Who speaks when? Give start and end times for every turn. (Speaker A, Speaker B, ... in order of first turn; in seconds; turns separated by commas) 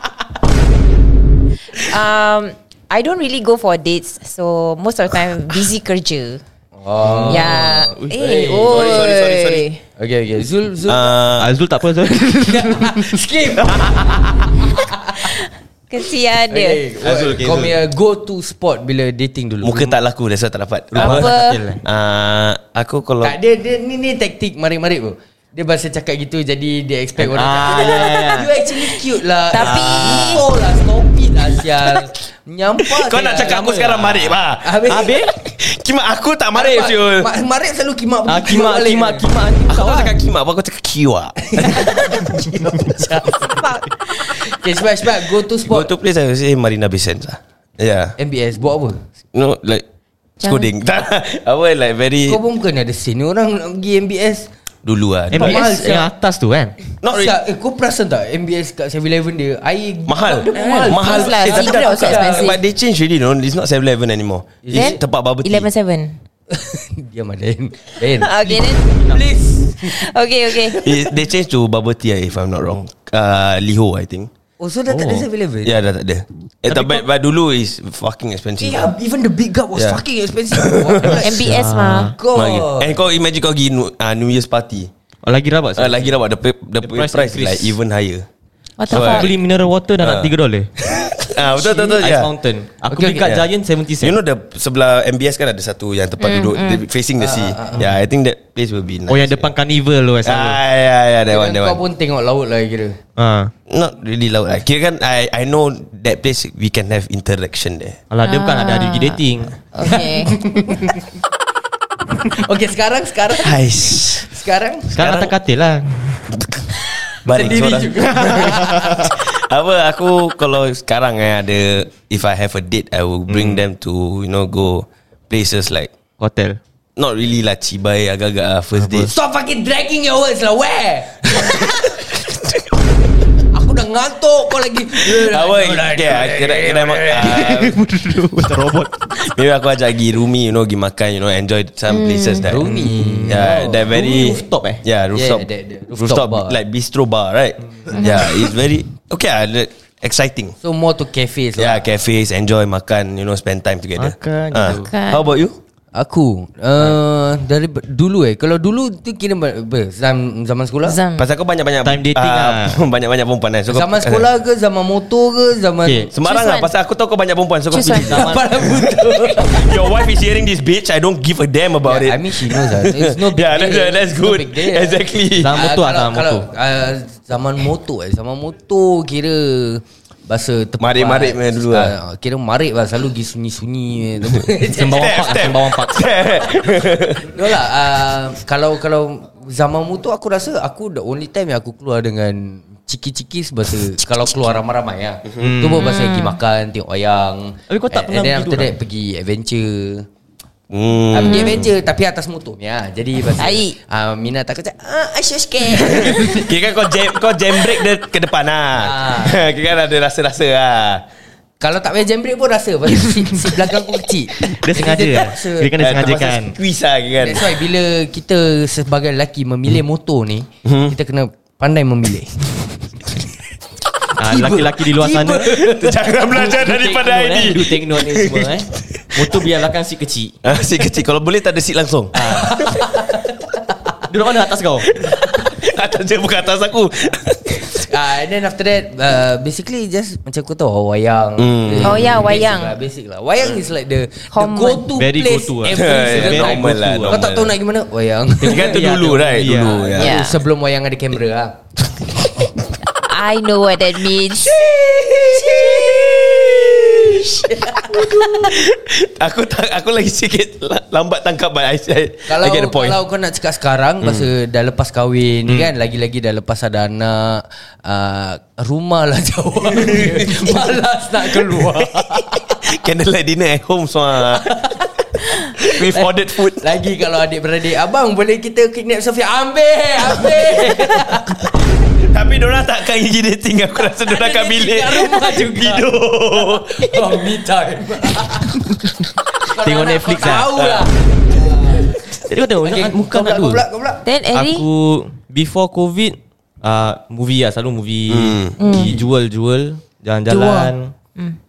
Speaker A: 1.7-6.4, Speaker B: 6.8-9.1, Speaker C: 7.1-8.0, Speaker A: 7.3-9.8, Speaker D: 8.6-9.7, Speaker B: 10.0-11.2, Speaker D: 10.9-11.5, Speaker C: 11.4-13.2, Speaker B: 12.4-15.4, Speaker A: 15.9-16.8, Speaker B: 16.5-19.9, Speaker D: 17.0-17.7, Speaker D: 19.6-23.4, Speaker C: 20.9-21.8, Speaker A: 21.0-21.6, Speaker B: 23.2-33.8, Speaker C: 27.2-28.5, Speaker A: 29.5-30.4, Speaker C: 29.6-30.4, Speaker D: 32.8-37.3, Speaker C: 33.2-35.3, Speaker B: 34.6-35.1, Speaker B: 36.5-39.3, Speaker C: 38.3-40.1, Speaker D: 39.7-42.4, Speaker B: 41.5-43.7, Speaker A: 43.4-43.9, Speaker B: 44.3-45.9, Speaker D: 45.6-48.1, Speaker B: 48.2-49.0, Speaker D: 49.3-49.9, Speaker A: 50.4-50.7, Speaker D: 50.4-52.4, Speaker B: 52.3-54.5, Speaker D: 54.9-55.7, Speaker B: 55.3-56.1, Speaker C: 55.3-56.8, Speaker D: 57.0-57.4, Speaker B: 57.1-62.6, Speaker D: 60.1-65.7, Speaker A: 60.4-62.6, Speaker B: 64.6-65.0, Speaker A: 64.7-66.2, Speaker B: 66.5-70.1, Speaker A: 68.1-69.0, Speaker A: 69.8-70.9, Speaker D: 70.7-74.3, Speaker B: 74.6-75.8, Speaker C: 74.9-75.2, Speaker D: 75.6-78.9, Speaker C: 76.7-77.0, Speaker B: 78.6-83.0, Speaker D: 80.5-81.2, Speaker A: 81.2-82.1, Speaker C: 81.3-82.2, Speaker D: 82.3-84.9, Speaker C: 85.2-86.1, Speaker D: 85.8-88.3, Speaker C: 86.8-87.8, Speaker A: 88.8-89.3, Speaker D: 88.9-89.3, Speaker C: 88.9-90.7, Speaker D: 90.0-90.3, Speaker D: 90.8-92.3, Speaker C: 91.6-94.2, Speaker B: 92.9-93.2, Speaker D: 93.1-93.5, Speaker D: 94.0-99.5, Speaker A: 96.2-96.8, Speaker B: 97.2-97.8, Speaker C: 99.1-100.6, Speaker D: 100.2-101.8, Speaker B: 101.3-103.0, Speaker C: 103.2-103.5, Speaker D: 103.7-108.0, Speaker C: 108.1-109.6, Speaker A: 108.2-109.2, Speaker A: 109.7-110.4, Speaker B: 109.8-111.1, Speaker B: 112.2-115.1, Speaker D: 113.4-114.3, Speaker C: 114.9-116.3, Speaker D: 115.0-115.3, Speaker D: 116.4-116.6, Speaker B: 117.2-119.1, Speaker D: 117.2-125.9, Speaker C: 123.3-123.6, Speaker C: 126.2-126.6, Speaker D: 127.0-129.1, Speaker C: 128.8-129.1, Speaker B: 129.1-131.9, Speaker D: 131.3-132.8, Speaker B: 133.5-137.8, Speaker D: 135.0-137.8, Speaker C: 137.5-139.0, Speaker D: 139.1-150.6, Speaker A: 141.9-142.5, Speaker B: 142.4-143.8, Speaker C: 142.7-144.8, Speaker B: 145.1-146.6, Speaker A: 147.9-148.3, Speaker B: 150.6-151.9, Speaker D: 151.6-155.6, Speaker C: 154.0-154.9, Speaker A: 154.7-155.2, Speaker B: 155.9-161.0, Speaker A: 160.8-161.3, Speaker D: 161.2-164.3, Speaker C: 161.8-162.8, Speaker B: 163.7-166.1, Speaker C: 165.8-166.1, Speaker D: 166.1-175.6, Speaker A: 166.2-166.7, Speaker A: 167.7-168.2, Speaker C: 167.8-168.7, Speaker B: 168.1-169.9, Speaker B: 171.8-185.5, Speaker C: 175.4-176.5, Speaker D: 180.8-181.9, Speaker C: 184.7-186.1, Speaker D: 184.8-187.5, Speaker B: 187.2-200.1, Speaker C: 195.4-195.9, Speaker A: 195.8-196.4, Speaker C: 197.7-198.7, Speaker D: 200.7-201.7, Speaker B: 201.1-206.6, Speaker A: 201.2-201.6, Speaker A: 203.4-203.8, Speaker D: 205.8-211.0, Speaker B: 208.8-209.5, Speaker B: 211.6-215.7, Speaker C: 214.4-216.6, Speaker D: 215.8-217.5, Speaker B: 217.2-222.5, Speaker D: 220.7-220.9, Speaker C: 224.2-225.6, Speaker B: 224.2-226.1, Speaker D: 225.6-229.4, Speaker C: 226.3-230.4, Speaker D: 230.4-232.7, Speaker C: 232.1-232.7, Speaker B: 232.2-233.6, Speaker C: 234.1-234.9, Speaker D: 234.9-237.9, Speaker B: 237.8-251.6, Speaker D: 241.4-242.3, Speaker A: 241.8-242.8, Speaker A: 244.3-244.9, Speaker C: 244.9-247.2, Speaker D: 245.7-247.5, Speaker D: 248.4-250.2, Speaker C: 249.2-249.9, Speaker A: 249.9-250.4, Speaker A: 252.9-254.6, Speaker D: 254.4-263.0, Speaker B: 254.7-258.5, Speaker B: 262.3-272.6, Speaker D: 264.0-264.3, Speaker D: 269.7-270.7, Speaker D: 271.3-274.5, Speaker B: 274.4-274.9, Speaker D: 275.4-276.8, Speaker B: 275.6-281.5, Speaker D: 282.0-287.2, Speaker B: 284.1-288.9, Speaker B: 289.4-292.0, Speaker C: 289.6-290.5, Speaker D: 290.5-291.7, Speaker C: 292.2-293.6, Speaker B: 292.6-294.0, Speaker A: 294.0-294.7, Speaker C: 294.3-300.9, Speaker D: 298.1-298.6, Speaker A: 298.6-298.9, Speaker B: 300.3-300.7